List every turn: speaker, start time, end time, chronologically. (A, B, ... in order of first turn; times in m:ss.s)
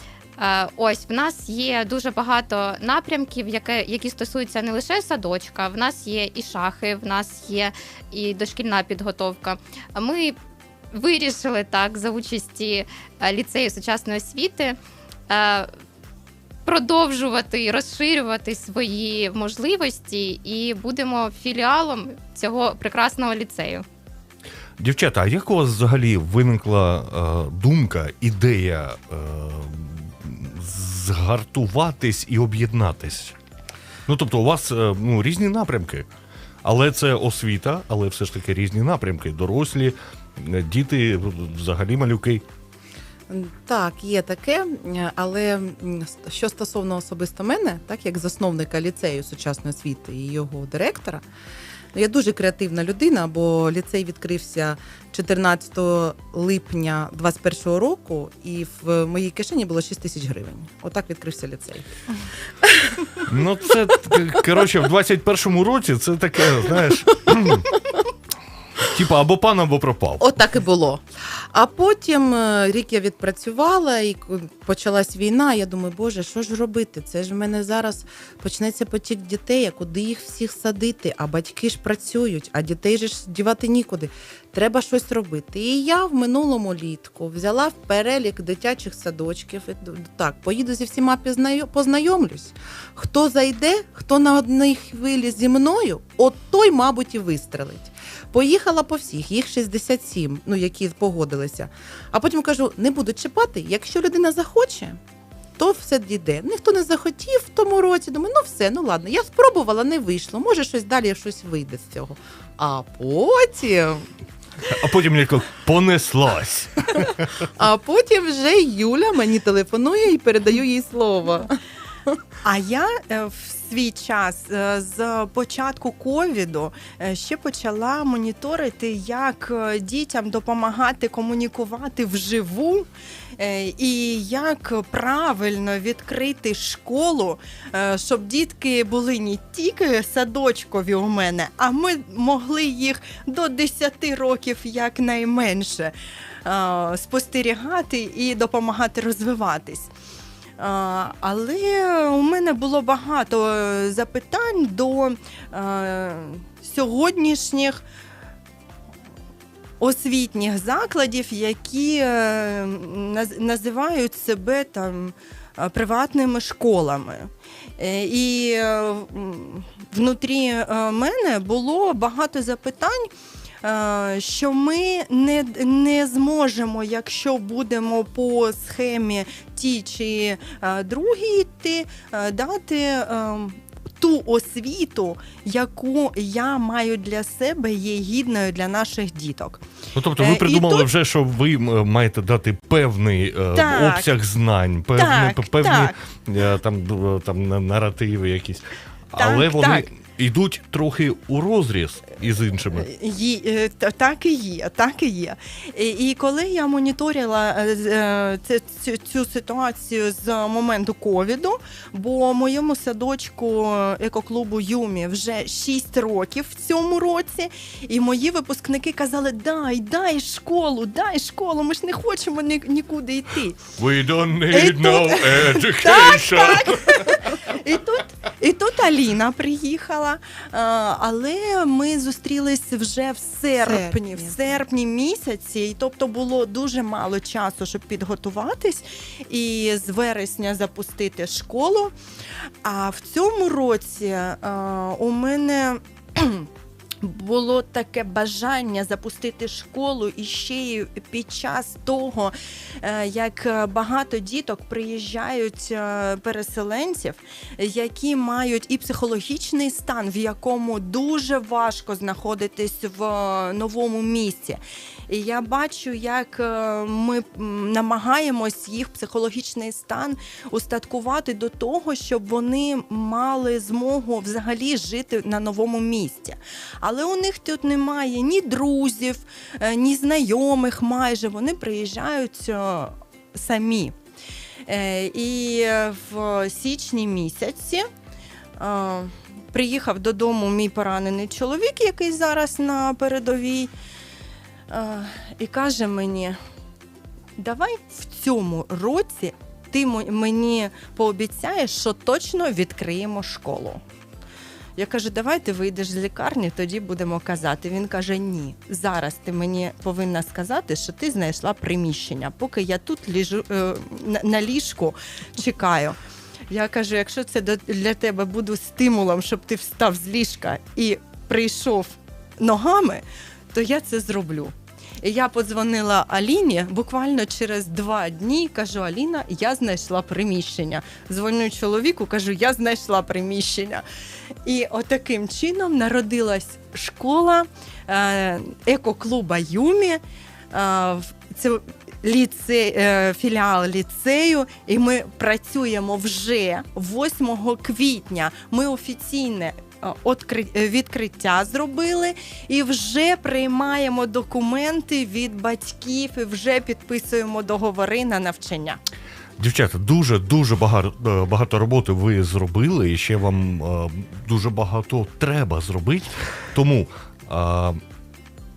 0:00.4-0:10.4 A
0:10.9-0:14.8 A
0:15.3-0:15.7 A
0:16.7-0:23.8 A
0:24.8-0:33.4 B
0:34.1-0:36.1 B
0:36.6-0:42.4 B
0:43.3-0:51.2 C
0:51.9-1:01.9 C
1:02.6-1:03.0 C
1:03.3-1:07.8 B
1:08.8-1:10.3 B
1:10.2-1:45.0 C
1:45.6-1:54.0 C
1:54.6-1:57.4 B
1:57.6-2:02.2 C
2:02.4-2:25.9 D
2:26.4-2:29.9 D
2:30.6-2:37.8 D
2:39.8-3:09.6 D
3:10.0-3:22.9 B
3:10.2-3:10.9 D
3:13.5-3:14.2 D
3:15.0-3:15.9 D
3:19.2-3:19.9 D
3:22.7-3:43.6 D
3:43.8-3:47.3 B
3:44.5-4:01.9 D
3:53.6-3:54.4 C
4:02.6-4:06.5 D
4:07.0-4:44.0 D
4:44.7-4:47.9 D
4:48.6-4:53.7 D
4:54.7-4:56.4 D
4:57.4-5:03.8 D
5:04.8-5:16.0 D
5:16.5-5:33.8 D
5:34.4-5:58.8 D
5:59.4-6:07.8 B